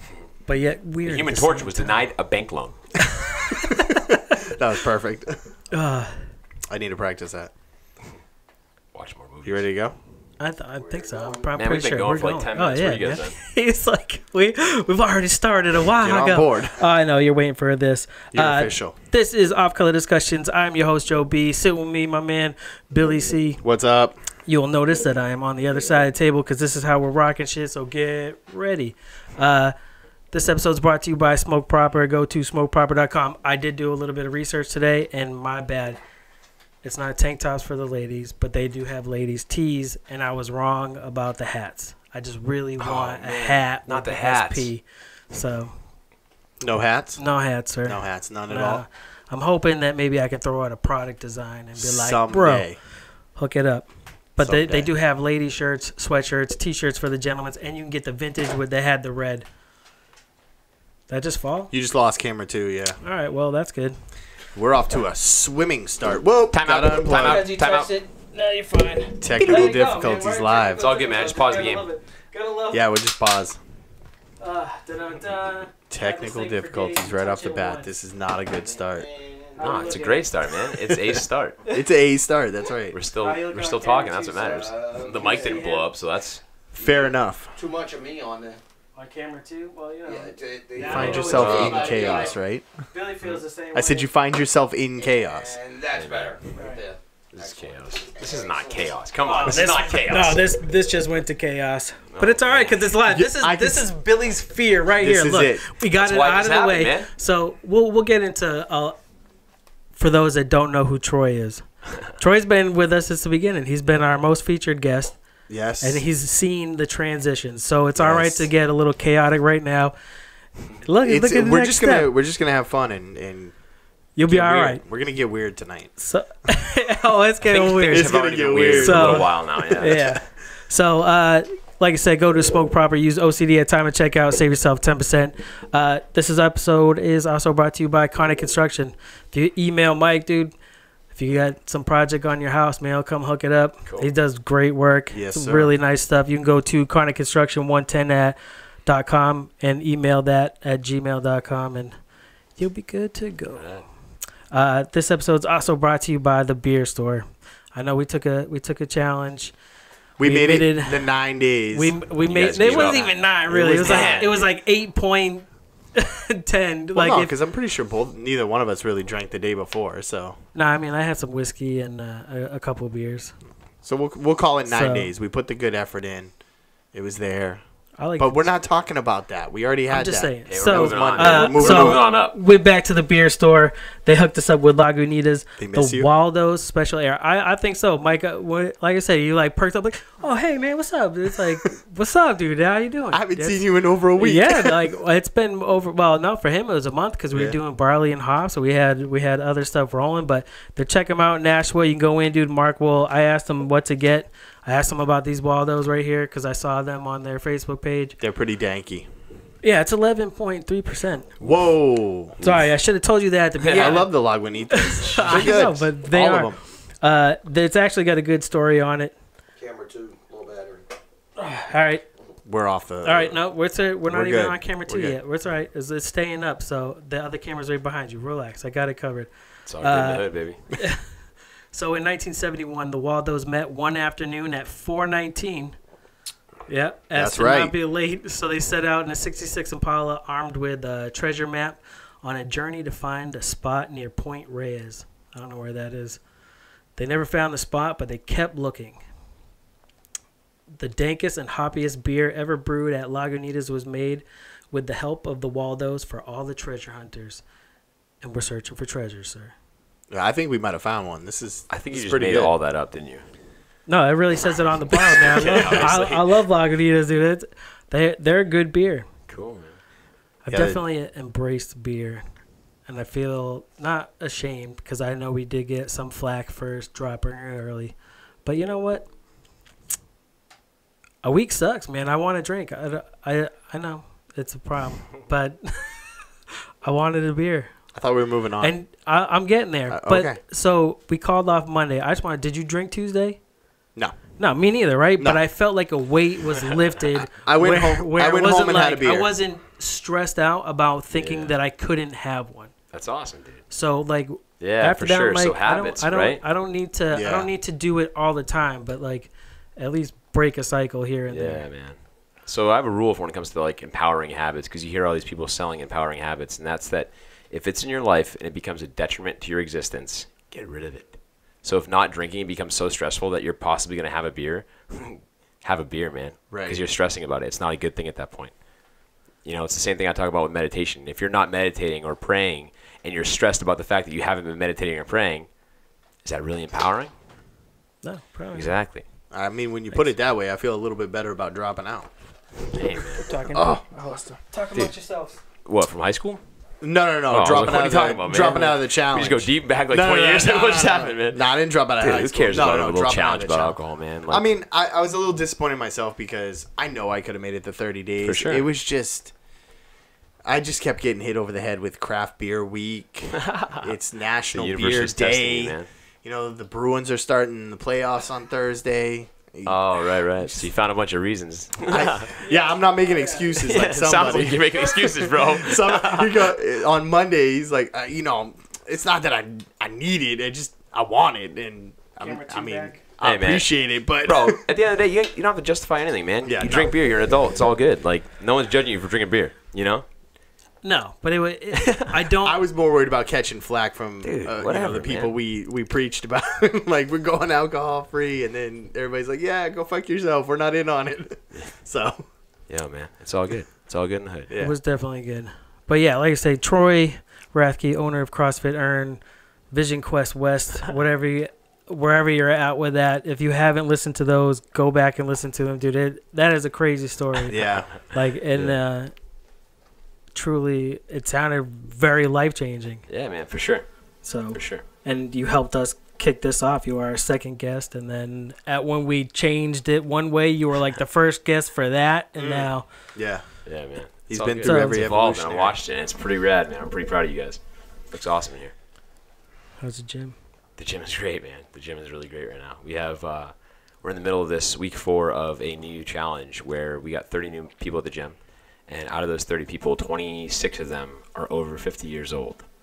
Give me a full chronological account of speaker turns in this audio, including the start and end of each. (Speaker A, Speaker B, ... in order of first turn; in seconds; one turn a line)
Speaker A: 0.5-2.0
Speaker B: 1.0-2.9
Speaker A: 3.2-4.2
Speaker C: 4.3-5.5
Speaker A: 5.7-6.3
Speaker C: 6.7-7.5
Speaker B: 8.9-9.7
Speaker C: 9.4-10.0
Speaker A: 10.4-23.6
Speaker D: 10.8-11.5
Speaker B: 11.6-13.3
Speaker C: 15.9-16.8
Speaker C: 18.3-18.9
Speaker C: 23.6-24.2
Speaker A: 24.5-29.7
Speaker A: 30.3-36.0
Speaker A: 36.8-45.8
Speaker B: 42.8-44.7
Speaker C: 46.6-47.2
Speaker A: 47.2-52.7
Speaker C: 47.9-48.8
Speaker C: 51.8-52.8
Speaker A: 53.3-59.5
Speaker C: 54.4-54.9
Speaker A: 61.1-61.7
Speaker C: 61.7-63.0
Speaker A: 63.0-64.0
Speaker C: 64.5-67.5
Speaker B: 66.5-67.9
Speaker A: 67.1-72.8
Speaker C: 69.2-70.8
Speaker B: 70.8-71.9
Speaker C: 72.7-73.6
Speaker A: 74.4-77.9
Speaker C: 75.9-79.1
Speaker D: 78.5-80.1
Speaker A: 79.6-81.1
Speaker B: 79.6-81.6
Speaker C: 81.7-83.0
Speaker B: 82.9-86.4
Speaker A: 83.2-84.4
Speaker D: 84.1-85.7
Speaker A: 85.2-85.9
Speaker C: 86.7-87.6
Speaker D: 86.8-88.6
Speaker A: 89.0-92.3
Speaker D: 90.0-92.4
Speaker C: 90.8-92.7
Speaker B: 90.9-91.9
Speaker A: 92.9-94.1
Speaker C: 93.7-95.6
Speaker D: 95.0-99.0
Speaker B: 95.9-96.4
Speaker A: 96.6-96.8
Speaker B: 97.3-100.5
Speaker A: 99.2-109.0
Speaker B: 102.1-102.8
Speaker C: 103.1-103.9
Speaker C: 105.0-105.6
Speaker B: 106.0-107.1
Speaker A: 110.0-115.2
Speaker C: 115.5-116.0
Speaker A: 115.8-119.9
Speaker C: 118.0-118.5
Speaker A: 120.8-122.1
Speaker C: 121.0-123.5
Speaker A: 124.2-124.8
Speaker C: 124.3-125.9
Speaker A: 126.0-140.5
Speaker B: 127.4-130.1
Speaker C: 127.9-129.3
Speaker A: 141.1-152.0
Speaker C: 145.1-145.7
Speaker A: 152.6-153.7
Speaker B: 153.5-153.9
Speaker A: 154.5-159.5
Speaker C: 160.2-162.0
Speaker A: 160.2-161.1
Speaker A: 161.7-167.3
Speaker B: 162.2-164.5
Speaker C: 162.6-164.1
Speaker C: 166.9-170.4
Speaker A: 170.6-173.4
Speaker C: 173.8-176.3
Speaker A: 174.7-175.1
Speaker C: 176.9-177.6
Speaker A: 178.0-178.5
Speaker C: 178.2-182.0
Speaker A: 179.9-193.6
Speaker B: 180.5-182.4
Speaker C: 185.6-186.1
Speaker C: 193.1-194.9
Speaker A: 194.2-208.2
Speaker C: 208.2-209.1
Speaker A: 209.6-211.3
Speaker C: 211.4-212.5
Speaker A: 212.4-214.1
Speaker B: 213.6-214.0
Speaker C: 213.7-216.6
Speaker A: 214.7-219.2
Speaker B: 215.2-215.6
Speaker D: 219.6-220.9
Speaker A: 221.4-222.1
Speaker C: 222.4-223.4
Speaker A: 223.0-231.1
Speaker C: 224.1-225.2
Speaker B: 229.7-230.6
Speaker A: 231.7-235.8
Speaker A: 236.7-246.2
Speaker C: 237.2-237.7
Speaker A: 247.0-249.1
Speaker A: 250.8-257.4
Speaker A: 258.2-259.6
Speaker C: 260.1-262.5
Speaker B: 261.7-263.2
Speaker A: 263.9-269.1
Speaker B: 265.0-266.3
Speaker B: 269.3-269.8
Speaker A: 270.4-272.2
Speaker C: 270.5-270.8
Speaker A: 272.9-279.1
Speaker A: 281.2-286.2
Speaker A: 286.8-287.8
Speaker C: 287.9-288.8
Speaker A: 288.6-293.4
Speaker C: 289.9-290.4
Speaker A: 294.4-302.7
Speaker C: 297.3-299.3
Speaker B: 301.1-301.6
Speaker B: 302.9-303.6
Speaker A: 303.7-311.7
Speaker B: 304.6-306.4
Speaker C: 307.1-307.5
Speaker B: 311.3-328.6
Speaker C: 326.5-326.8
Speaker B: 329.4-335.5
Speaker B: 336.2-337.1
Speaker A: 338.0-338.7
Speaker B: 338.5-339.0
Speaker C: 339.3-342.1
Speaker B: 342.7-343.3
Speaker A: 343.2-345.4
Speaker C: 343.5-344.3
Speaker B: 345.6-346.4
Speaker C: 346.8-359.3
Speaker B: 347.3-351.5
Speaker B: 352.0-354.5
Speaker B: 358.2-358.7
Speaker C: 360.4-369.8
Speaker B: 363.4-363.9
Speaker B: 364.5-365.9
Speaker B: 369.6-372.3
Speaker C: 370.4-370.7
Speaker C: 371.9-384.6
Speaker A: 372.4-373.5
Speaker B: 373.6-376.4
Speaker A: 382.2-383.0
Speaker B: 383.2-390.1
Speaker C: 386.4-387.0
Speaker A: 390.8-392.6
Speaker C: 392.4-402.3
Speaker B: 394.2-395.3
Speaker B: 402.7-404.5
Speaker C: 404.5-404.8
Speaker A: 404.6-419.1
Speaker C: 417.5-417.9
Speaker A: 420.3-423.0
Speaker B: 423.1-423.9
Speaker A: 424.2-432.9
Speaker B: 424.5-424.8
Speaker C: 432.4-433.5
Speaker B: 433.7-438.7
Speaker C: 434.3-435.8
Speaker A: 434.6-435.0
Speaker A: 439.8-440.4
Speaker B: 440.8-452.7